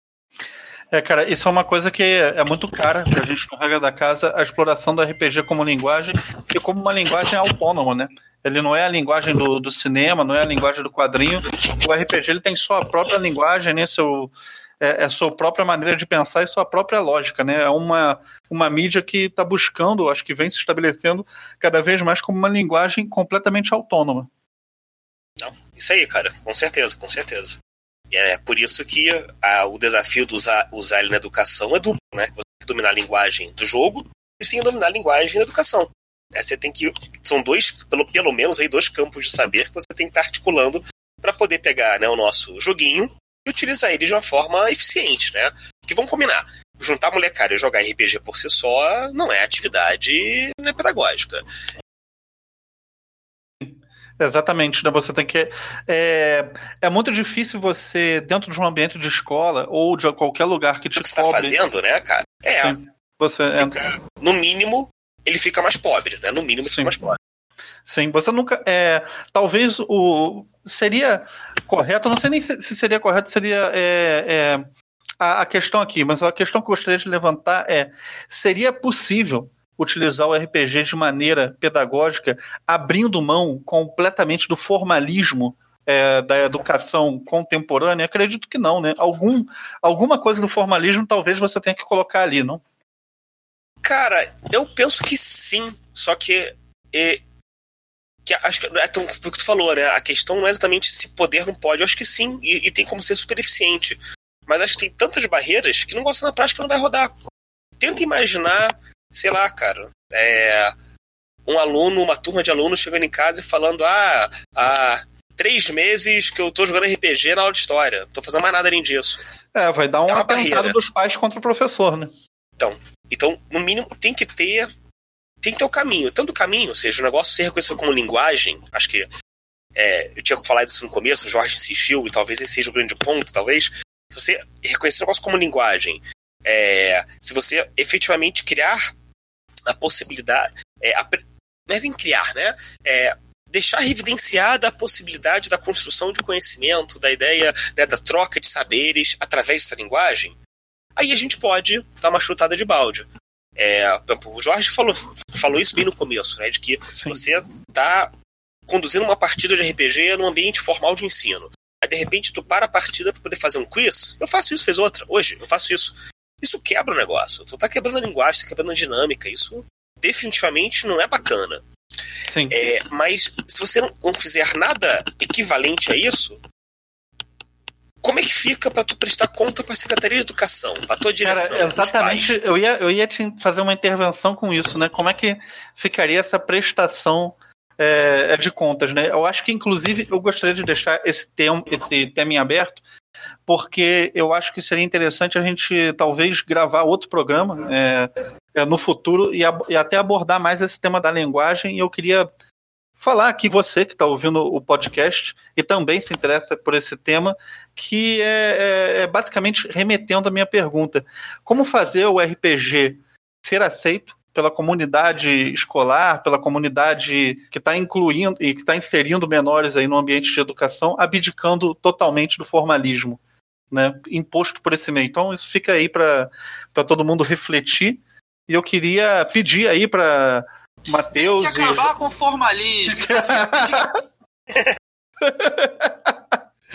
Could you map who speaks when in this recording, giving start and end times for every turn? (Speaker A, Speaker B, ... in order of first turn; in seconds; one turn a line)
Speaker A: 0.9-24.3
Speaker B: 25.4-27.6
Speaker B: 28.1-51.4
Speaker A: 53.6-61.6
Speaker B: 61.0-62.8
Speaker A: 62.6-63.8
Speaker B: 63.5-67.2
Speaker A: 67.8-74.7
Speaker A: 75.2-92.6
Speaker B: 93.8-97.2
Speaker B: 98.2-107.1
Speaker B: 107.8-110.7
Speaker B: 111.5-119.2
Speaker A: 119.5-122.1
Speaker B: 120.1-120.8
Speaker B: 122.6-124.7
Speaker B: 125.4-129.1
Speaker B: 129.7-138.9
Speaker B: 139.7-150.4
Speaker B: 150.9-158.1
Speaker B: 158.7-171.6
Speaker A: 172.3-172.5
Speaker B: 172.5-176.4
Speaker B: 178.0-182.4
Speaker A: 181.2-192.8
Speaker A: 193.5-202.3
Speaker A: 203.0-223.2
Speaker A: 223.7-231.9
Speaker C: 231.1-233.9
Speaker A: 232.9-233.9
Speaker A: 235.2-236.3